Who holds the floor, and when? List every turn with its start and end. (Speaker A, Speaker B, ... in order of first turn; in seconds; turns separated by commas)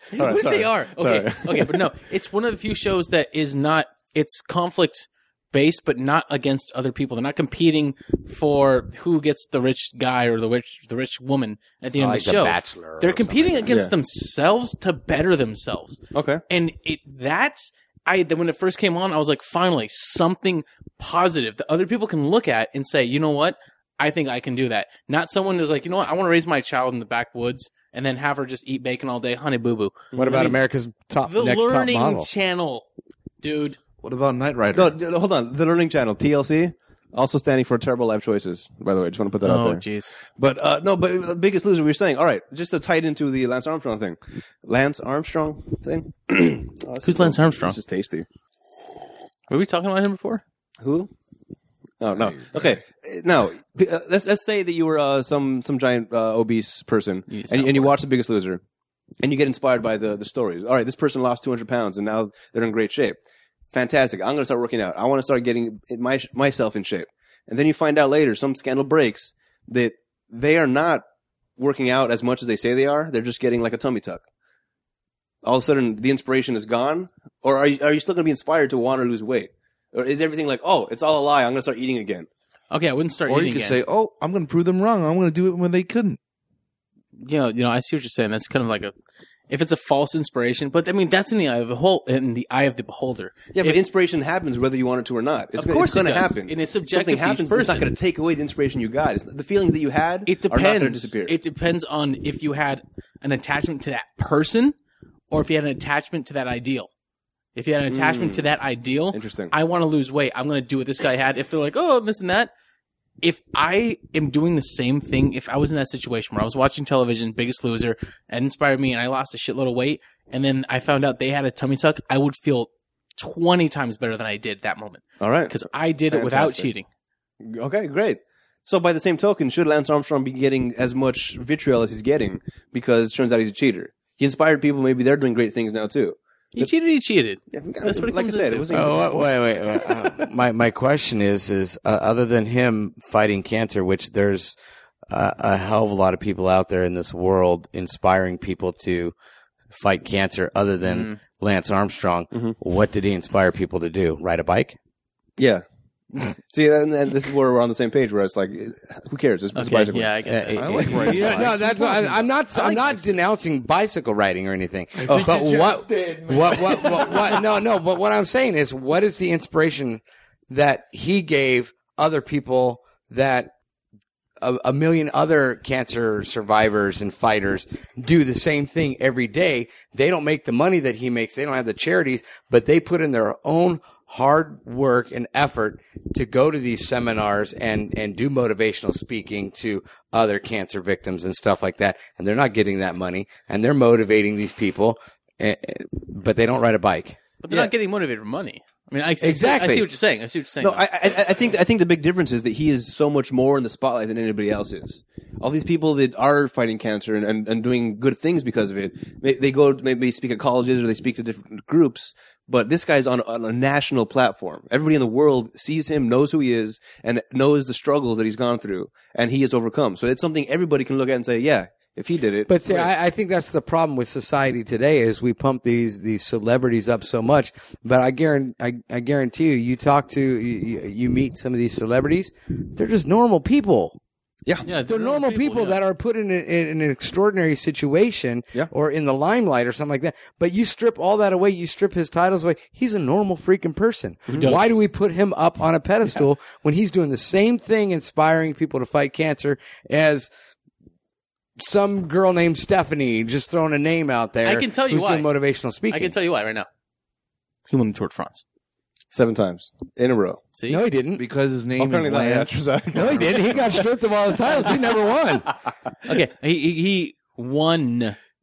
Speaker A: 0.1-30.6, Speaker B: 0.1-1.8, Speaker C: 11.9-13.7, Speaker B: 16.1-16.4, Speaker B: 30.1-30.5, Speaker C: 30.2-32.3, Speaker A: 31.2-32.8, Speaker A: 33.4-33.8, Speaker D: 34.0-34.9, Speaker B: 34.7-48.2, Speaker A: 39.4-40.1, Speaker A: 47.0-47.8, Speaker A: 49.5-50.4, Speaker B: 50.8-51.1, Speaker B: 52.0-58.6, Speaker A: 57.3-58.0, Speaker B: 59.2-63.2, Speaker B: 63.7-71.0, Speaker B: 71.6-74.2, Speaker B: 75.4-82.3, Speaker A: 82.7-83.8, Speaker D: 83.3-86.2, Speaker A: 87.2-88.9, Speaker A: 89.5-93.8, Speaker B: 93.5-101.3, Speaker A: 95.5-97.9, Speaker A: 100.2-104.7, Speaker A: 105.3-106.9, Speaker A: 107.5-112.5, Speaker B: 107.9-108.5, Speaker B: 109.1-109.5, Speaker A: 113.2-126.8, Speaker B: 125.2-126.7, Speaker B: 127.4-136.7, Speaker A: 136.5-138.8, Speaker B: 137.5-139.3, Speaker C: 138.7-144.6, Speaker C: 145.1-149.1, Speaker C: 149.7-154.8, Speaker A: 150.8-151.2, Speaker B: 155.4-155.6, Speaker B: 156.4-160.1, Speaker A: 159.5-161.5, Speaker C: 160.3-173.5, Speaker D: 160.5-162.3, Speaker D: 165.0-167.3, Speaker B: 165.1-165.3, Speaker C: 174.4-197.2, Speaker A: 197.4-200.8, Speaker C: 199.2-199.8, Speaker B: 200.6-222.9, Speaker C: 222.5-234.0, Speaker A: 234.6-235.8, Speaker C: 234.9-250.3, Speaker A: 244.4-244.8, Speaker C: 251.6-256.1, Speaker A: 254.4-255.3, Speaker A: 255.9-256.7, Speaker A: 257.7-258.4, Speaker B: 259.1-260.4, Speaker A: 260.5-260.8, Speaker C: 260.7-261.2, Speaker D: 261.1-263.6, Speaker B: 261.8-263.8, Speaker C: 262.9-265.5, Speaker A: 266.0-268.1